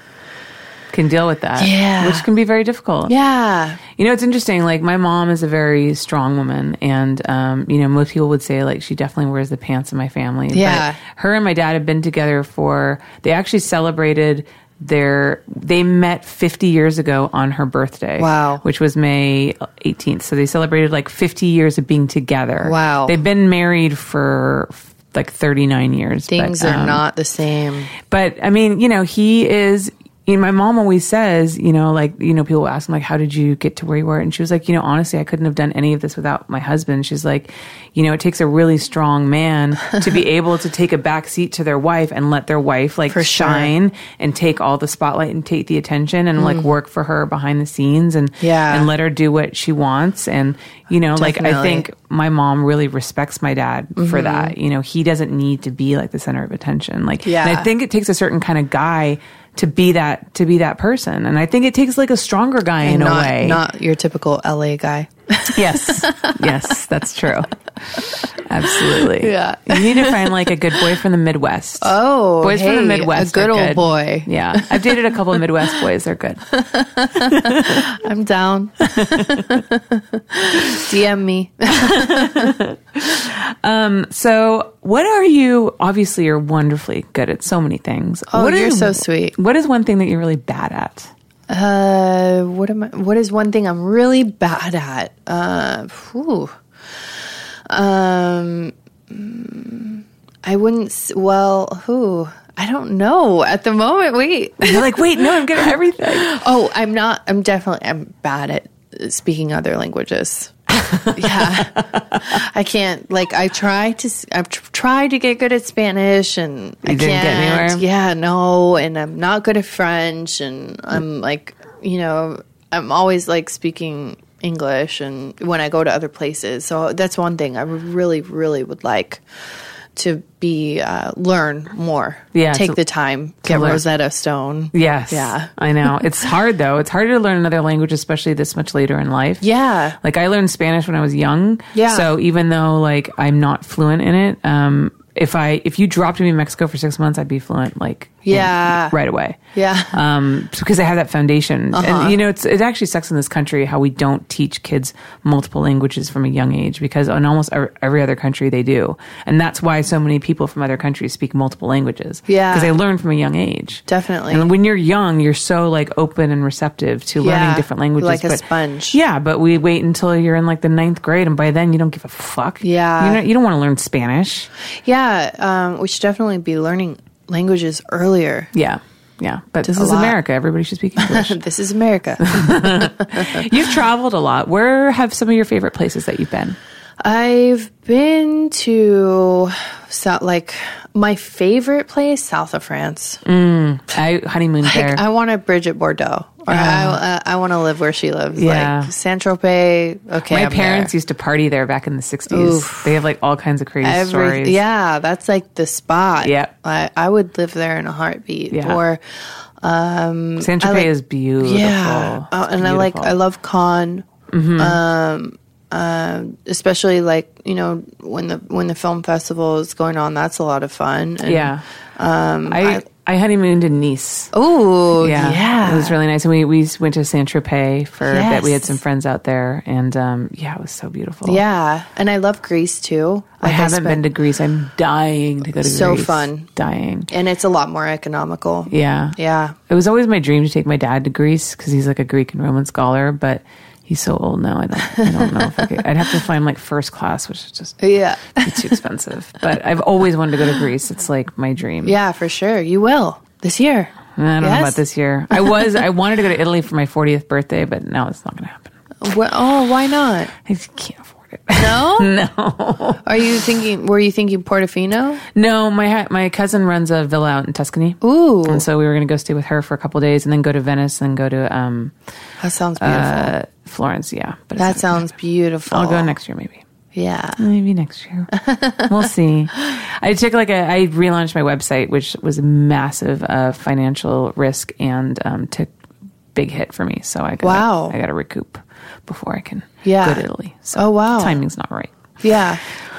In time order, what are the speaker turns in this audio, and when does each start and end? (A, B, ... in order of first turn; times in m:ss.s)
0:00.9-0:03.1 A
0:01.6-0:02.3 B
0:03.1-0:03.8 B
0:04.0-0:27.0 A
0:10.5-0:11.0 B
0:18.2-0:18.6 B
0:22.6-0:23.2 B
0:26.3-0:27.9 B
0:28.0-1:03.6 A
0:43.1-0:43.7 B
0:46.4-0:46.7 B
0:48.4-0:48.9 B
0:51.2-0:51.9 B
0:54.0-0:54.5 B
0:57.2-0:57.7 B
1:02.8-1:06.7 B
1:05.5-1:16.6 A
1:08.6-1:10.9 B
1:11.8-1:15.4 B
1:16.5-1:22.6 B
1:17.2-1:18.0 A
1:18.8-1:19.6 A
1:20.5-1:20.8 A
1:21.7-1:31.1 A
1:28.3-1:29.4 B
1:31.5-1:36.6 B
1:37.7-1:50.5 B
1:44.6-1:46.4 A
1:50.7-1:52.4 A
1:51.1-2:09.2 B
1:56.8-1:57.8 A
2:09.9-2:15.5 B
2:12.3-2:12.8 A
2:13.4-2:13.8 A
2:14.7-2:19.5 A
2:19.4-2:20.0 B
2:20.0-2:29.4 A
2:21.7-2:22.1 B
2:28.3-2:29.0 B
2:29.5-2:30.0 B
2:29.9-2:54.5 A
2:31.7-2:32.2 B
2:42.3-2:42.7 B
2:43.9-2:44.5 B
2:47.2-2:49.0 B
2:52.6-2:53.2 B
2:54.8-2:58.5 B
2:58.5-3:01.4 A
2:59.6-3:00.2 B
3:01.0-3:03.6 B
3:02.2-3:06.6 A
3:07.0-3:13.2 B
3:13.2-3:15.0 A
3:14.6-3:20.9 B
3:16.5-3:17.0 A
3:18.4-3:18.9 A
3:20.3-3:24.6 A
3:22.3-3:22.9 B
3:23.8-3:29.0 B
3:26.2-3:26.5 A
3:28.5-3:28.8 A
3:29.6-3:34.1 B
3:30.4-3:33.2 A
3:34.3-3:34.8 A
3:34.6-3:42.8 B
3:41.2-3:41.6 A
3:42.5-3:44.3 A
3:44.3-3:46.0 B
3:45.0-3:51.4 A
3:48.1-3:48.8 B
3:51.2-3:54.0 B
3:53.4-3:57.1 A
3:55.6-3:56.5 B
3:57.1-3:59.6 B
3:58.7-3:59.2 A
3:59.7-4:07.8 A
4:04.9-4:05.8 B
4:07.8-4:08.8 B
4:08.4-4:12.0 A
4:11.8-4:14.8 B
4:14.2-4:18.7 A
4:15.4-4:15.6 B
4:19.0-4:20.3 B
4:20.4-4:23.2 A
4:21.5-4:22.1 B
4:23.0-4:25.2 B
4:25.4-4:31.9 A
4:28.0-4:28.6 B
4:32.4-4:33.3 B
4:32.8-4:35.1 A
4:34.6-4:36.1 B
4:35.7-4:36.6 A
4:36.9-4:37.4 B
4:37.4-4:38.3 A
4:38.3-4:39.1 B
4:38.9-4:45.7 A
4:46.3-4:52.0 A
4:47.4-4:48.0 B
4:49.8-4:51.4 B
4:52.2-4:52.6 B